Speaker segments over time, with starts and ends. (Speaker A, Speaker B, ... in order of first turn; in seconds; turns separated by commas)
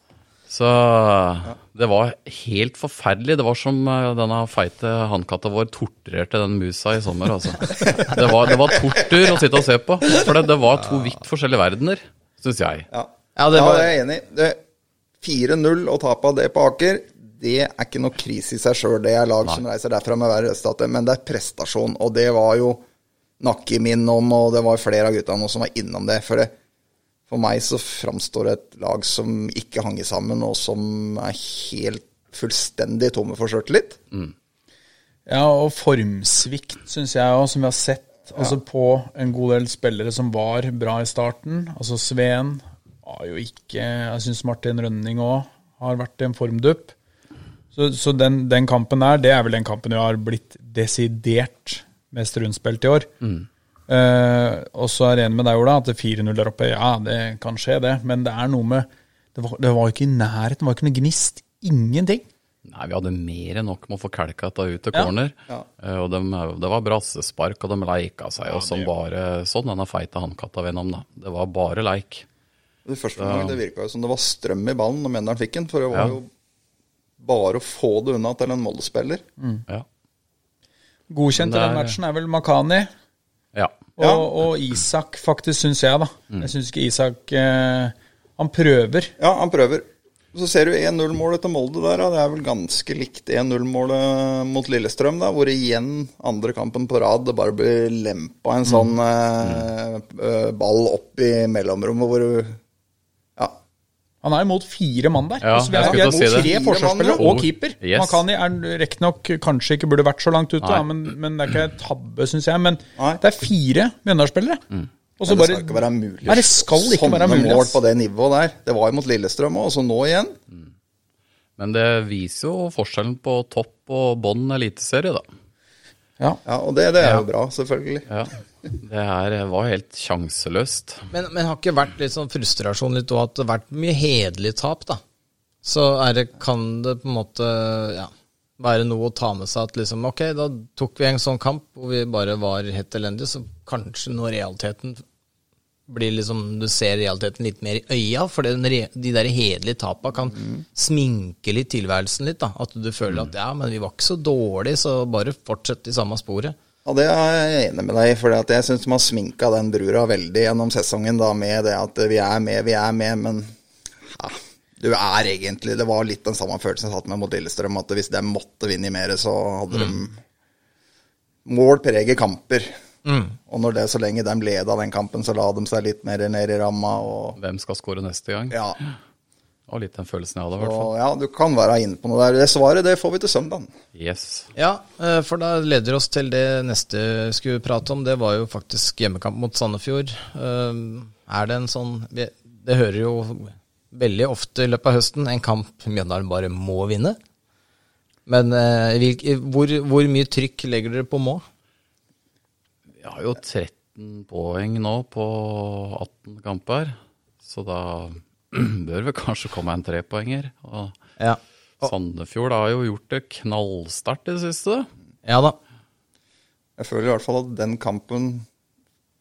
Speaker A: 0.5-12.9, Speaker B: 12.9-14.6, Speaker C: 13.3-14.0, Speaker B: 15.2-22.8, Speaker B: 23.4-26.5, Speaker B: 27.3-34.0, Speaker D: 35.3-46.9, Speaker D: 47.7-53.1, Speaker D: 53.9-62.3, Speaker A: 62.6-72.2, Speaker D: 68.5-68.9, Speaker B: 72.8-76.3, Speaker A: 73.2-73.6, Speaker A: 75.9-76.2, Speaker B: 77.2-79.2, Speaker D: 81.1-82.9, Speaker A: 81.3-82.0, Speaker A: 83.5-83.8, Speaker D: 84.0-89.1, Speaker B: 84.0-84.3, Speaker B: 89.2-102.6, Speaker A: 99.4-99.7, Speaker D: 104.2-114.6, Speaker A: 105.4-106.5, Speaker B: 105.7-107.3, Speaker A: 107.1-108.2, Speaker A: 110.6-110.9, Speaker D: 115.2-117.8, Speaker B: 115.2-120.4, Speaker A: 121.6-125.2, Speaker B: 126.4-128.1, Speaker A: 128.1-131.1, Speaker C: 131.1-135.0, Speaker C: 135.6-145.0, Speaker C: 145.9-156.5, Speaker B: 150.4-150.6, Speaker B: 156.8-163.5, Speaker B: 164.1-170.2, Speaker B: 171.4-172.7, Speaker C: 173.0-173.4, Speaker B: 173.5-177.4, Speaker A: 177.4-178.9, Speaker B: 178.5-178.8, Speaker A: 179.7-180.9, Speaker B: 180.6-183.7, Speaker A: 183.9-184.5, Speaker C: 184.6-197.2, Speaker C: 198.3-201.4, Speaker A: 203.0-210.9, Speaker C: 211.2-211.9, Speaker A: 211.8-214.9, Speaker C: 215.2-215.6, Speaker B: 216.8-218.4